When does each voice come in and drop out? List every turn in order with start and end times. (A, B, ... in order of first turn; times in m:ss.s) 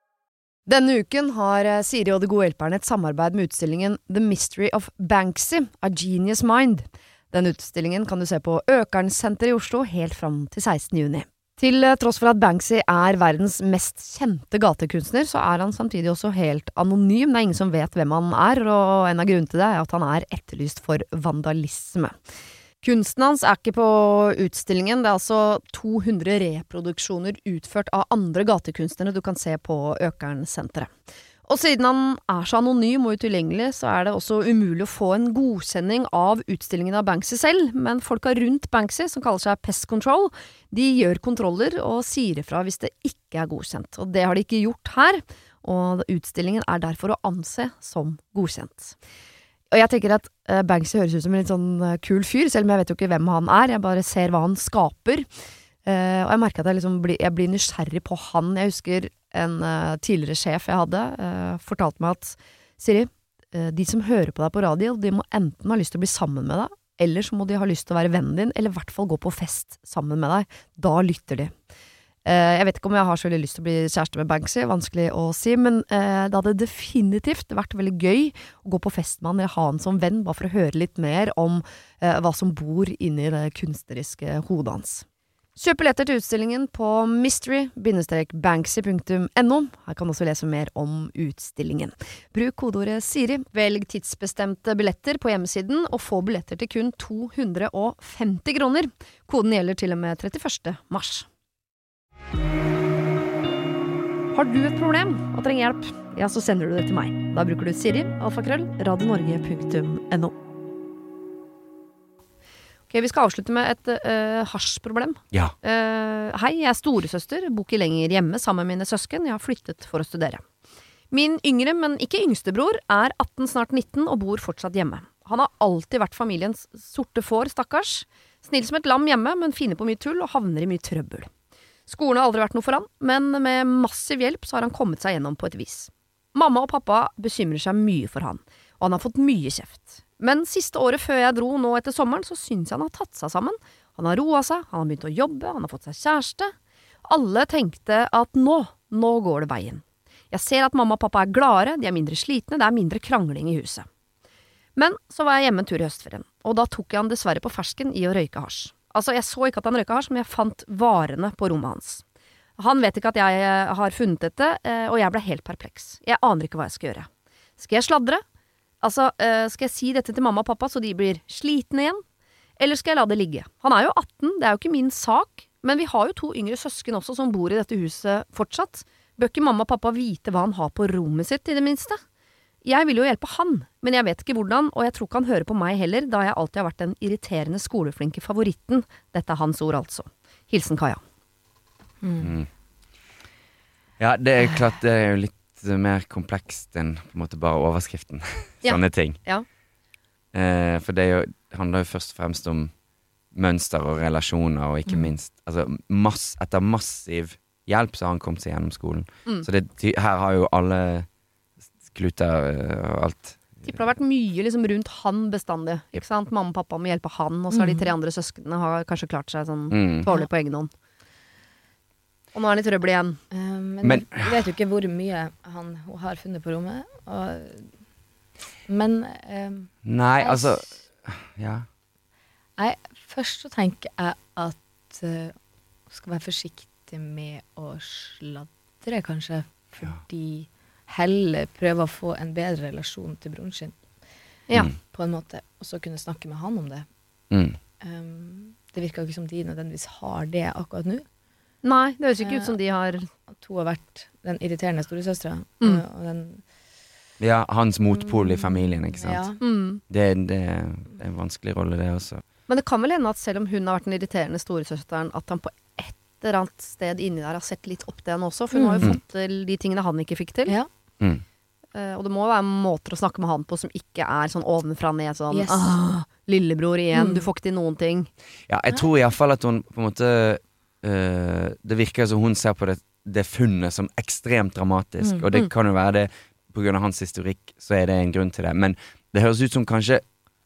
0:00.7-0:22.1 A
0:22.8-0:30.9 A
0:31.4-0:49.0 A
0:49.7-0:55.3 A
0:55.8-1:11.5 A
1:12.2-1:25.0 A
1:25.6-1:41.3 A
1:44.3-1:50.3 A
1:52.9-2:00.4 A
2:01.1-2:11.3 A
2:11.9-2:26.5 A
2:27.0-2:33.8 A
2:34.8-2:42.0 A
2:42.6-2:47.1 A
2:47.6-2:48.2 A
2:48.8-2:52.0 A
2:52.6-3:02.0 A
3:02.6-3:11.0 A
3:12.0-3:12.3 B
3:12.2-3:12.5 C
3:14.0-3:19.2 C
3:18.6-3:19.4 A
3:20.3-3:22.7 C
3:23.3-3:31.1 C
3:31.9-3:33.8 C
3:33.6-3:40.7 A
3:37.5-3:37.9 B
3:39.7-3:40.1 C
3:42.3-3:43.2 A
3:43.3-3:47.7 B
3:43.8-3:44.4 C
3:48.7-3:50.6 B
3:49.8-3:51.7 C
3:52.6-3:55.3 B
3:55.9-4:03.8 B
4:04.8-4:06.9 B
4:07.3-4:07.6 C
4:07.8-4:11.0 B
4:11.6-4:13.1 A
4:12.2-4:12.5 B
4:13.3-4:16.4 B
4:17.2-4:19.3 C
4:18.0-4:19.4 B
4:19.4-4:19.8 A
4:19.9-4:22.2 C
4:22.5-4:30.6 A
4:28.5-4:28.8 B
4:31.7-4:38.1 A
4:35.3-4:35.7 B
4:36.9-4:37.2 B
4:38.5-4:50.0 C
4:45.0-4:45.2 B